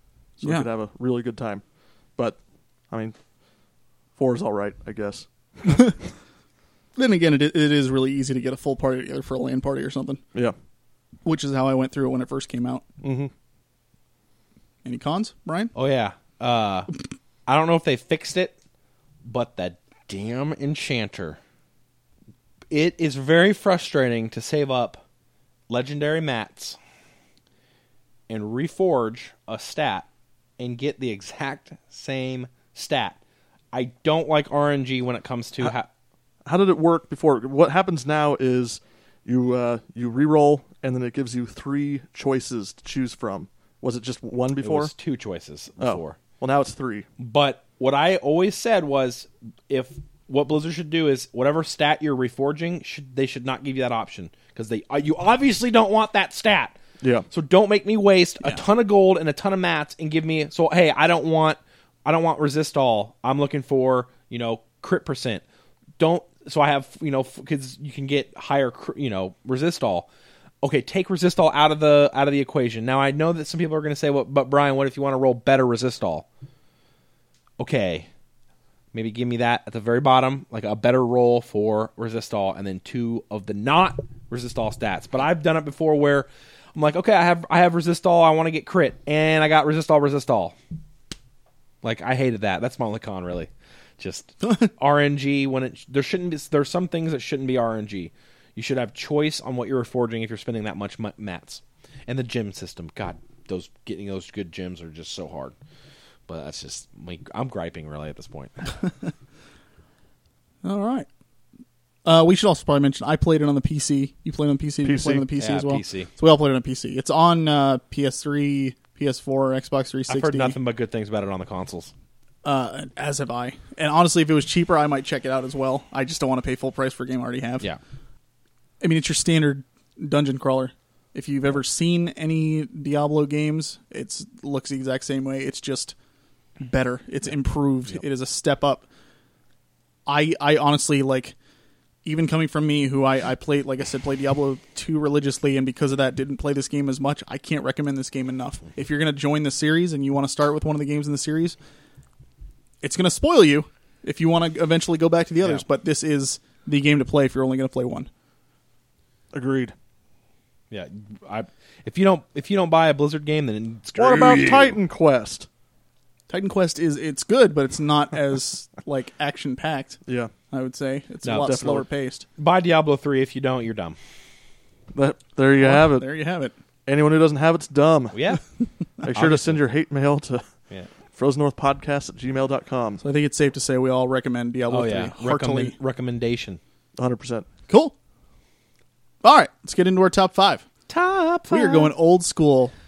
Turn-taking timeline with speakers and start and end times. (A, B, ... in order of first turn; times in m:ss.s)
0:00.4-0:01.6 A
0:00.4-0:00.7 B
0:02.9-0:03.2 A
0:04.2-0:05.9 A
0:05.7-0:06.0 B
0:07.0-0:10.2 B
0:11.2-0:12.8 B
0:13.0-0:13.3 A
0:14.8-0:15.7 B
0:15.8-0:16.9 C
0:17.5-0:18.5 C
0:19.2-0:21.4 C
0:22.7-0:25.0 C
0:25.7-0:26.8 C
0:28.3-0:30.1 C
0:30.6-0:33.2 C
0:33.7-0:35.9 C
0:36.5-0:44.9 A
0:44.6-0:46.2 C
0:45.8-0:47.1 A
0:47.2-0:56.8 C
0:57.0-0:57.3 A
0:57.3-1:05.4 C
1:06.0-1:10.1 C
1:10.6-1:16.3 C
1:17.6-1:18.1 C
1:18.9-1:30.6 C
1:31.8-1:45.6 C
1:46.3-1:48.7 C
1:50.6-1:51.1 B
1:52.0-2:00.6 B
1:54.8-1:55.3 A
1:55.4-1:56.1 C
2:00.1-2:01.9 C
2:02.4-2:07.7 B
2:08.8-2:16.0 B
2:16.6-2:18.9 B
2:20.1-2:21.4 B
2:22.0-2:31.6 B
2:32.8-2:38.1 B
2:39.3-2:39.7 A
2:40.7-2:44.8 C
2:44.0-2:45.5 A
2:46.3-2:50.0 B
2:50.1-2:50.3 A
2:50.5-2:52.2 B
2:51.2-2:51.6 C
2:51.4-2:51.8 A
2:52.4-2:54.0 C
2:54.9-2:56.1 A
2:55.6-2:56.6 B
2:56.9-2:58.2 A
2:58.1-2:58.4 C
2:59.0-3:00.4 A
2:59.0-2:59.6 C
3:01.1-3:03.0 A
3:03.0-3:05.8 B
3:04.7-3:06.6 C
3:07.0-3:07.5 A
3:07.7-3:08.0 B
3:09.2-3:10.7 B
3:10.9-3:11.9 C
3:11.5-3:12.7 B